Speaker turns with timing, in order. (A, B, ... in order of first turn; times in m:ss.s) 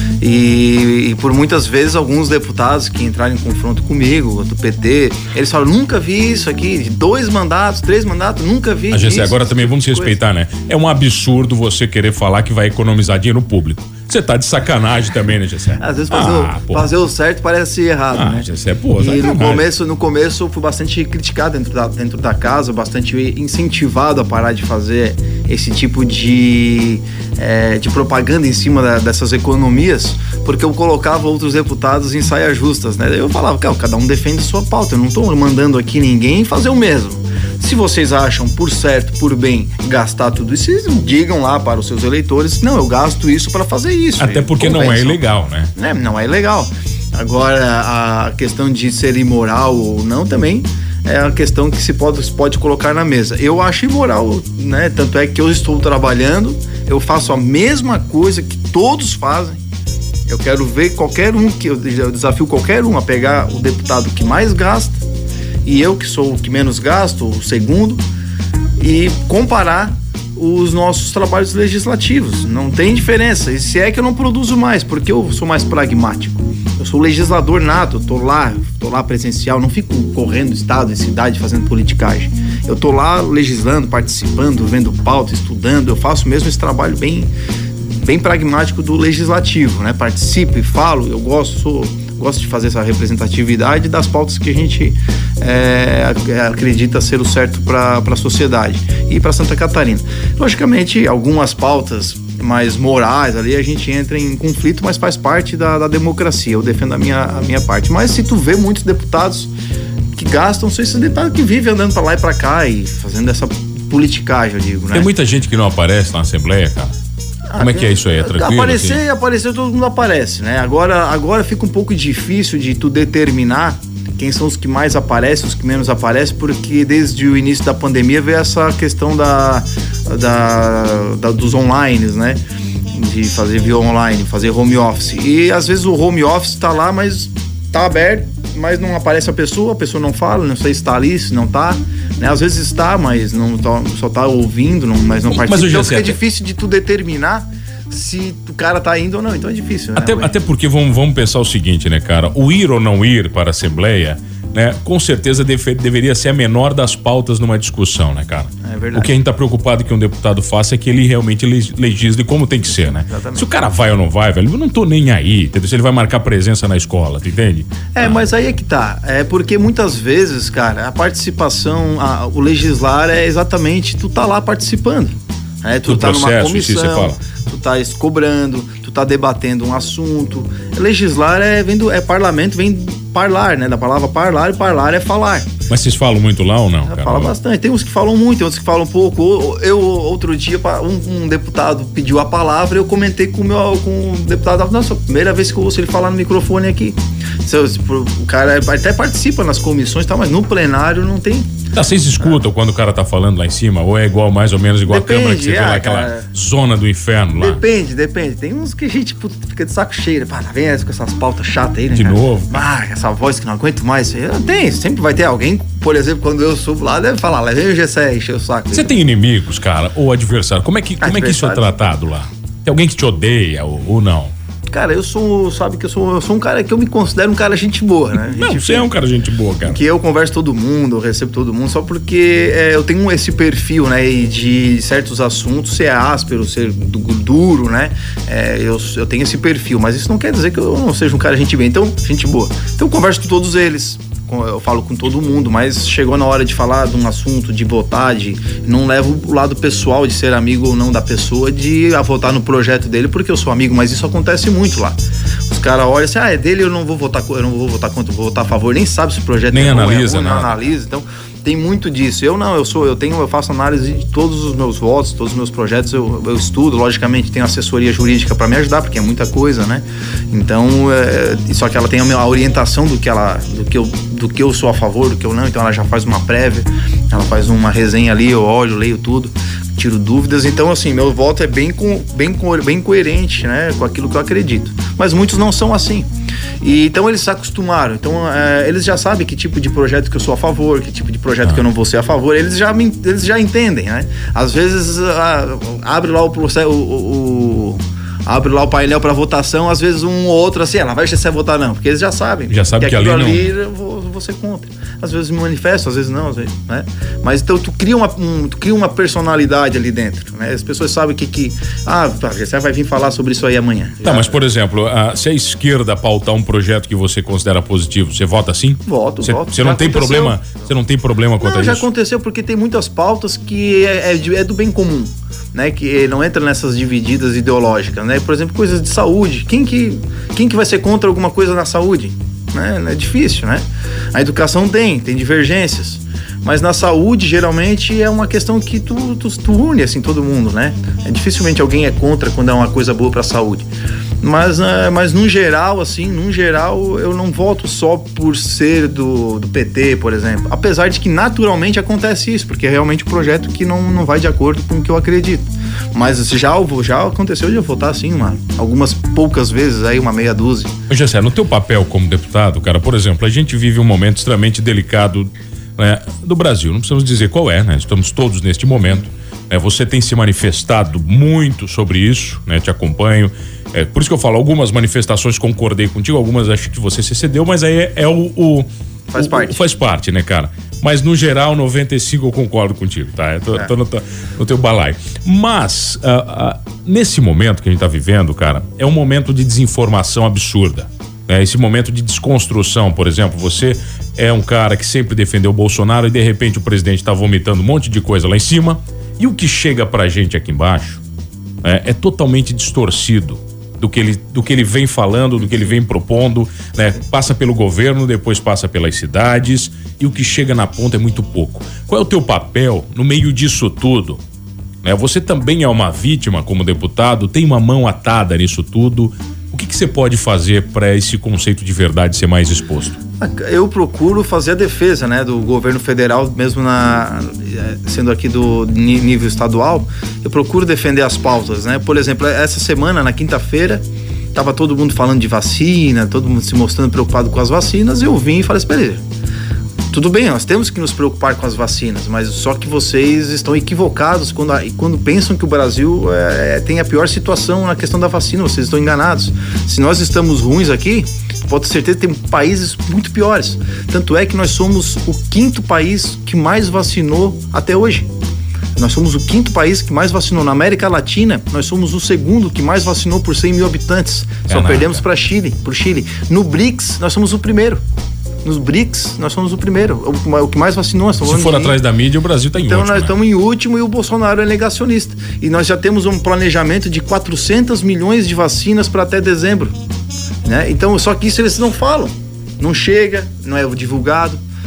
0:00.2-0:10.2 A
0:08.9-0:16.9 B
0:15.8-0:45.2 A
0:18.1-0:19.6 B
0:44.2-0:45.7 B
0:45.7-0:59.6 A
1:00.3-1:05.0 A
1:05.6-1:08.0 A
1:08.8-1:27.3 A
1:27.8-1:49.5 A
1:50.2-1:55.1 A
1:54.9-1:56.9 B
1:57.5-2:12.4 A
1:57.6-1:59.0 B
2:12.9-2:30.3 A
2:25.3-2:26.2 B
2:30.0-2:48.2 B
2:38.6-2:39.1 A
2:42.8-2:43.5 A
2:47.9-3:05.5 A
2:55.8-2:57.2 B
3:05.7-3:07.3 B
3:06.8-3:21.5 A
3:21.7-3:27.6 B
3:24.9-3:26.3 A
3:27.4-3:39.0 A
3:31.9-3:32.6 B
3:38.7-3:44.3 B
3:41.0-3:41.8 A
3:44.7-3:48.9 A
3:48.1-3:49.8 B
3:49.6-4:15.0 A
4:15.5-4:46.0 A
4:19.5-4:20.6 B
4:46.6-5:14.4 A
5:02.5-5:03.5 B
5:14.0-5:21.9 B
5:18.8-5:20.4 A
5:21.4-5:33.6 A
5:34.1-5:43.7 A
5:44.2-6:00.7 A
6:00.9-6:41.0 B
6:19.1-6:19.7 A
6:41.6-6:54.2 B
6:54.8-7:03.0 B
7:03.2-7:19.0 A
7:19.9-7:38.1 A
7:38.8-7:47.8 A
7:44.5-7:45.0 B
7:48.4-7:51.8 A
7:51.2-7:53.2 B
7:52.6-7:59.7 A
8:00.4-8:04.4 A